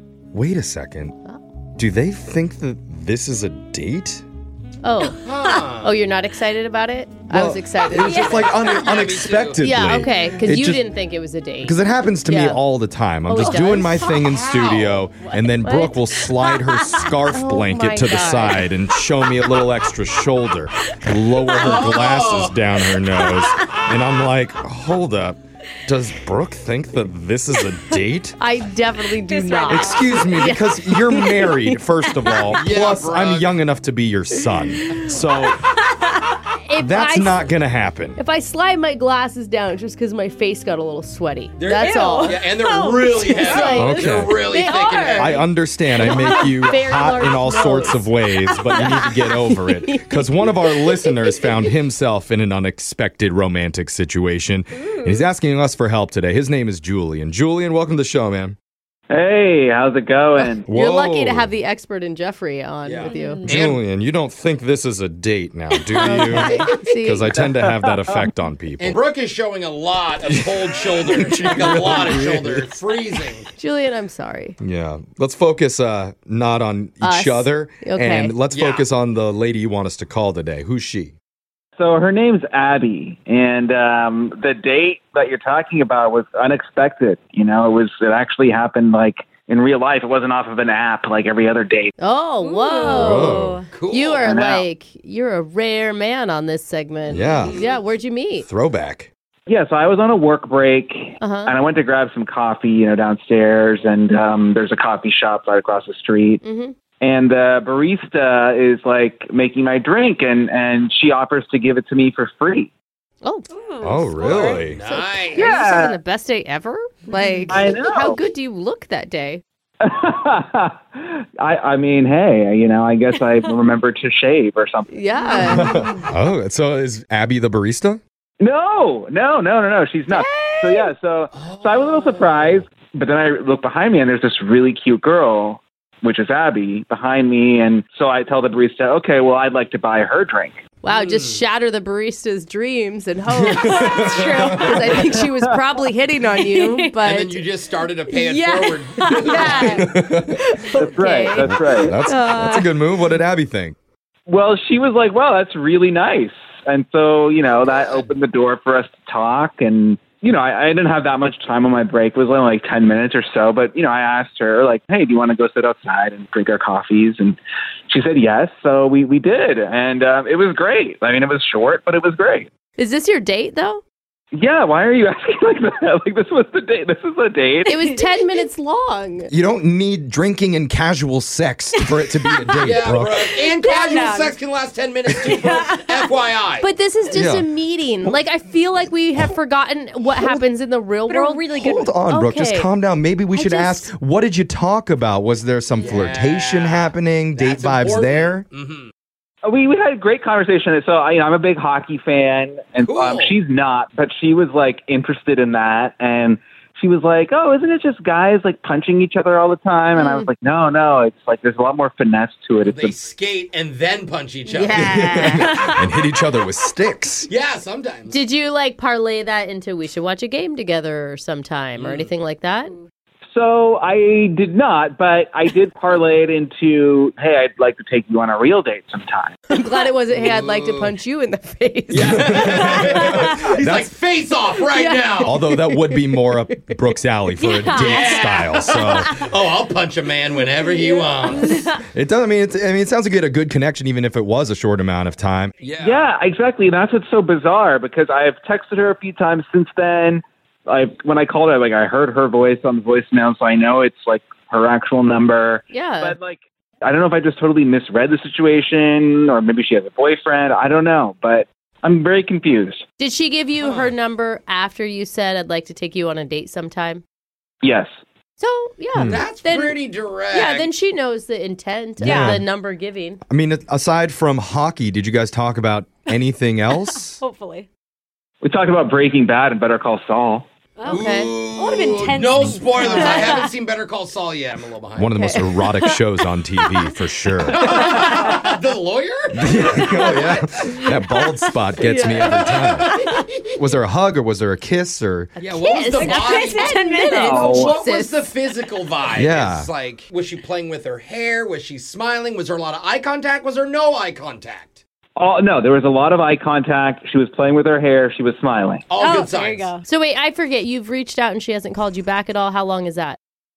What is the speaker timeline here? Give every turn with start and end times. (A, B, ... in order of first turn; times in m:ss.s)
0:00.3-0:01.2 A
0:01.8-0:04.2 A
0:04.8-0:08.4 B
0:05.2-0:06.0 C
0:07.3-0:10.8 A
0:07.9-0:09.8 C
0:08.0-0:08.8 D
0:09.6-0:12.6 B
0:11.6-0:28.4 A
0:13.2-0:14.1 B
0:13.4-0:15.1 C
0:15.3-0:16.0 B
0:16.6-0:17.1 D
0:17.3-0:18.7 B
0:20.9-0:21.7 D
0:21.6-0:22.7 C
0:23.2-0:23.8 D
0:28.4-0:32.6 B
0:29.1-0:30.3 D
0:29.7-0:35.6 A
0:32.5-0:33.6 C
0:34.7-0:35.1 B
0:36.6-0:37.5 B
0:36.8-0:38.2 A
0:38.2-0:42.4 B
0:41.6-0:45.4 C
0:41.8-0:44.0 D
0:43.3-0:45.5 B
0:43.7-0:44.4 A
0:45.2-0:58.6 A
0:46.0-0:48.1 B
0:46.0-0:46.5 D
0:48.7-0:51.6 B
0:54.8-0:55.2 B
0:59.1-1:00.6 E
1:00.6-1:01.5 A
1:00.7-1:03.4 B
1:02.8-1:03.8 C
1:03.0-1:03.5 D
1:03.5-1:09.0 A
1:05.8-1:06.7 D
1:06.0-1:07.4 B
1:07.7-1:08.2 E
1:08.8-1:13.5 C
1:10.5-1:12.6 A
1:13.6-1:14.6 B
1:14.6-1:21.1 A
1:17.0-1:18.3 B
1:18.5-1:18.8 C
1:21.8-1:31.9 E
1:32.0-1:38.5 B
1:32.4-1:33.6 D
1:32.8-1:33.6 A
1:33.7-1:34.4 C
1:34.2-1:34.6 E
1:37.1-1:37.6 C
1:37.1-1:37.6 A
1:38.4-1:39.1 A
1:39.5-1:46.4 E
1:41.2-1:41.5 B
1:46.4-1:46.7 B
1:47.0-1:52.7 E
1:53.2-1:59.4 B
1:53.5-1:54.6 D
1:53.8-1:54.8 A
1:54.3-1:55.5 C
1:55.3-1:56.0 E
1:57.1-1:57.6 D
1:57.5-1:58.2 E
1:59.8-2:05.7 E
2:03.1-2:03.6 D
2:04.9-2:05.8 B
2:05.3-2:06.1 D
2:05.4-2:08.0 A
2:08.4-2:20.6 E
2:10.1-2:10.8 D
2:11.3-2:12.6 C
2:20.8-2:27.4 B
2:20.9-2:21.4 C
2:23.4-2:25.0 A
2:23.5-2:24.9 D
2:26.5-2:27.0 D
2:27.0-2:29.8 C
2:28.1-2:32.8 B
2:29.0-2:29.9 D
2:29.8-2:30.4 A
2:30.6-2:30.9 D
2:30.7-2:31.9 E
2:31.4-2:33.8 A
2:34.3-2:52.5 E
2:37.6-2:38.1 C
2:52.8-2:53.8 B
2:54.3-2:57.8 E
2:57.7-2:59.3 B
2:59.3-3:03.3 A
3:02.0-3:02.8 D
3:02.6-3:06.7 C
3:03.4-3:04.4 D
3:05.2-3:06.1 D
3:06.6-3:12.7 B
3:07.1-3:07.5 A
3:11.1-3:11.9 D
3:11.5-3:18.4 A
3:13.3-3:13.9 B
3:15.8-3:16.1 D
3:15.8-3:18.9 C
3:19.4-3:33.0 E
3:22.8-3:23.4 C
3:30.0-3:30.3 B
3:32.6-3:35.1 C
3:34.5-3:35.6 B
3:34.7-3:37.3 A
3:35.4-3:35.8 D
3:37.3-3:38.2 C
3:38.1-3:42.7 B
3:41.8-3:42.1 C
3:43.3-3:49.4 E
3:49.5-3:52.4 B
3:50.2-3:50.9 C
3:51.9-3:55.4 C
3:52.0-3:53.9 A
3:52.4-3:53.5 D
3:54.7-3:56.8 B
3:55.2-3:59.2 A
3:57.4-3:59.0 D
3:57.8-4:01.7 C
4:00.6-4:01.7 D
4:01.9-4:05.5 A
4:05.6-4:06.1 C
4:05.8-4:22.8 E
4:15.7-4:16.1 B
4:23.0-4:27.0 B
4:23.6-4:23.9 C
4:27.6-4:27.9 E
4:28.4-4:33.2 B
4:28.9-4:29.2 A
4:29.1-4:30.7 C
4:32.0-4:32.4 A
4:32.0-4:32.4 D
4:33.3-4:37.2 A
4:36.8-4:37.7 D
4:38.4-4:40.4 E
4:40.8-4:43.5 D
4:40.8-4:41.3 B
4:40.8-4:45.1 C
4:45.0-4:47.7 A
4:45.1-4:45.5 B
4:45.6-4:47.0 D
4:47.5-4:50.4 C
4:47.7-4:48.4 D
4:49.3-4:52.9 A
4:49.7-4:50.3 D
4:51.8-4:52.5 B
4:52.2-4:53.2 D
4:52.5-4:53.3 C
4:53.6-4:55.3 A
4:55.4-4:58.3 B
4:55.4-5:04.8 C
4:55.8-4:57.8 D
4:57.1-4:57.7 E
4:59.1-4:59.7 A
5:05.2-5:08.8 E
5:08.9-5:09.7 C
5:09.0-5:09.8 D
5:09.8-5:13.2 B